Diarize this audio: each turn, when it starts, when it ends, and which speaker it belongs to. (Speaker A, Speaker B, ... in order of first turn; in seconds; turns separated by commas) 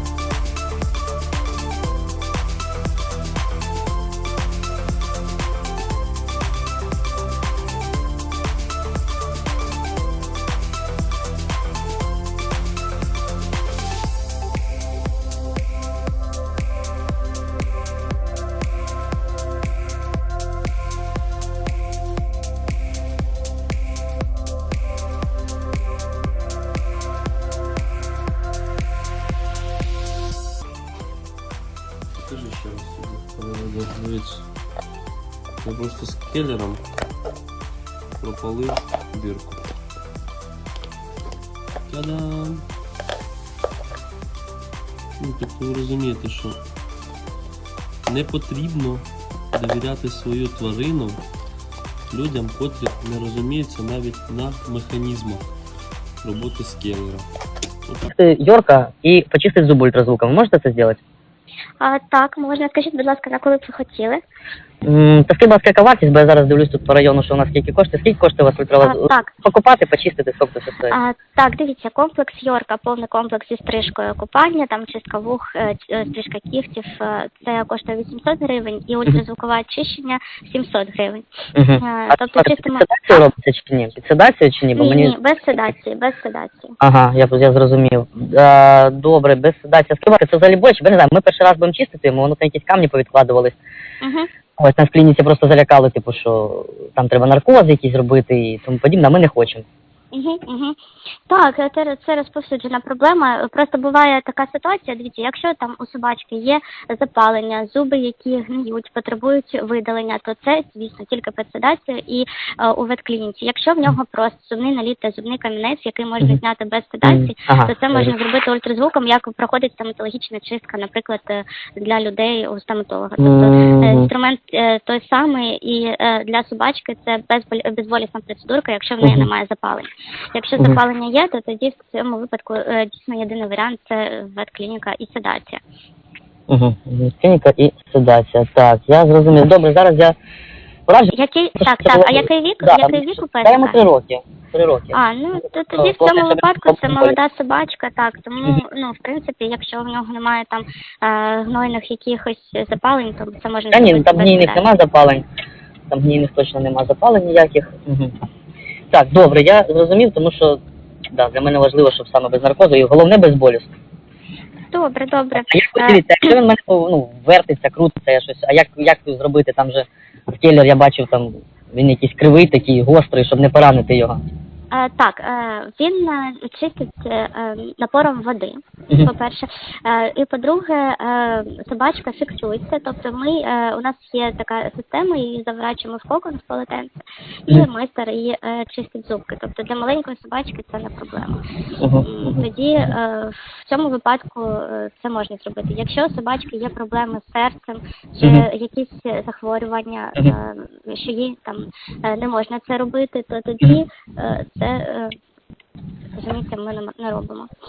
Speaker A: 32.2-34.4, Speaker A: 35.6-36.8, Speaker A: 38.2-39.6, Speaker A: 41.9-42.6, Speaker A: 45.2-46.6, Speaker A: 48.1-51.2, Speaker A: 52.1-55.5, Speaker A: 56.2-57.3, Speaker B: 58.1-61.0, Speaker C: 61.8-64.2, Speaker B: 64.8-71.0, Speaker C: 68.8-69.3, Speaker C: 70.9-81.2, Speaker B: 81.5-85.2, Speaker C: 81.8-83.2, Speaker C: 84.8-86.7, Speaker B: 86.8-93.6, Speaker C: 94.0-94.3, Speaker B: 94.6-99.7, Speaker C: 100.1-100.8, Speaker C: 101.3-135.6, Speaker B: 117.0-118.1, Speaker B: 123.2-124.1, Speaker B: 129.0-129.3, Speaker B: 136.5-140.2, Speaker B: 140.9-145.0, Speaker C: 141.1-143.8, Speaker C: 144.9-154.6, Speaker B: 145.8-147.2, Speaker B: 153.7-155.2, Speaker B: 155.9-158.1, Speaker B: 158.9-160.6, Speaker B: 161.1-163.7, Speaker C: 164.7-166.4, Speaker B: 165.3-174.2, Speaker C: 174.7-191.4, Speaker B: 191.8-192.5, Speaker C: 192.0-205.2, Speaker B: 198.2-198.5, Speaker C: 206.2-207.5